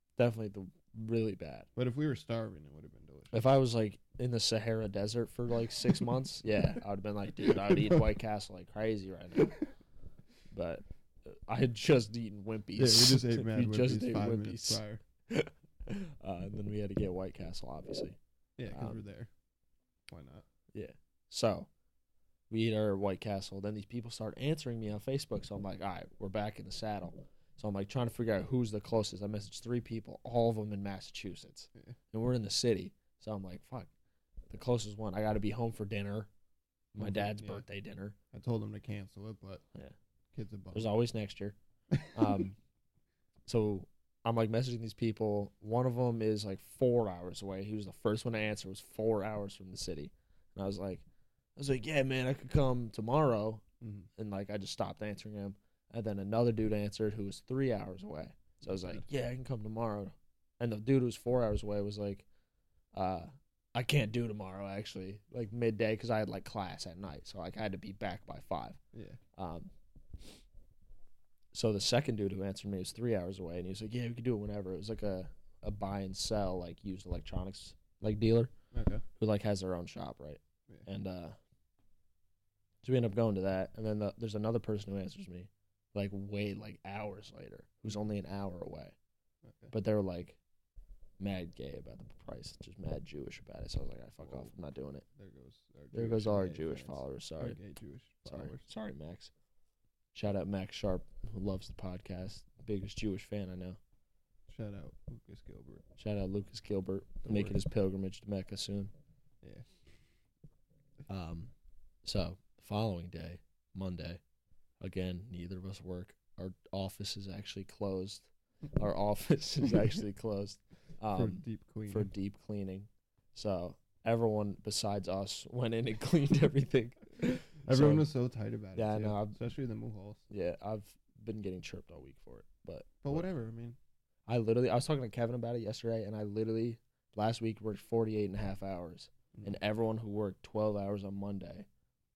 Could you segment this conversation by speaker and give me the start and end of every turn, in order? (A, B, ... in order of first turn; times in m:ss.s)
0:00.2-0:01.7 A
0:01.8-0:03.4 B
0:03.3-0:09.6 A
0:07.4-0:08.1 B
0:10.5-0:18.2 A
0:12.8-0:15.0 B
0:18.6-0:19.3 B
0:18.7-0:19.0 A
0:20.1-0:20.4 B
0:20.7-0:21.7 A
0:22.5-0:33.9 A
0:34.5-0:36.3 A
0:36.9-0:37.6 B
0:36.9-0:38.2 A
0:38.3-0:39.6 B
0:40.3-0:40.9 B
0:40.7-0:41.6 A
0:41.9-0:42.5 B
0:42.1-0:42.6 A
0:43.5-0:51.0 A
0:51.6-0:53.6 A
0:53.8-0:54.1 B
0:54.2-1:02.2 A
0:58.6-0:59.0 B
1:02.9-1:08.8 A
1:08.9-1:09.2 B
1:09.4-1:09.7 A
1:11.5-1:18.5 A
1:18.7-1:19.0 B
1:19.2-1:21.4 A
1:22.8-1:28.9 A
1:29.4-1:29.7 B
1:29.7-1:30.4 A
1:31.2-1:35.0 A
1:34.2-1:34.5 B
1:35.1-1:38.6 B
1:35.9-1:37.6 A
1:38.2-1:39.3 A
1:40.1-1:43.8 A
1:44.5-1:45.8 B
1:46.0-1:48.9 A
1:47.2-1:47.6 B
1:49.4-1:49.7 B
1:51.1-1:51.5 A
1:52.0-1:54.2 A
1:54.8-2:08.1 A
2:01.1-2:02.1 B
2:07.6-2:10.2 B
2:08.8-2:09.4 A
2:10.3-2:13.2 A
2:13.0-2:13.8 B
2:14.3-2:21.7 A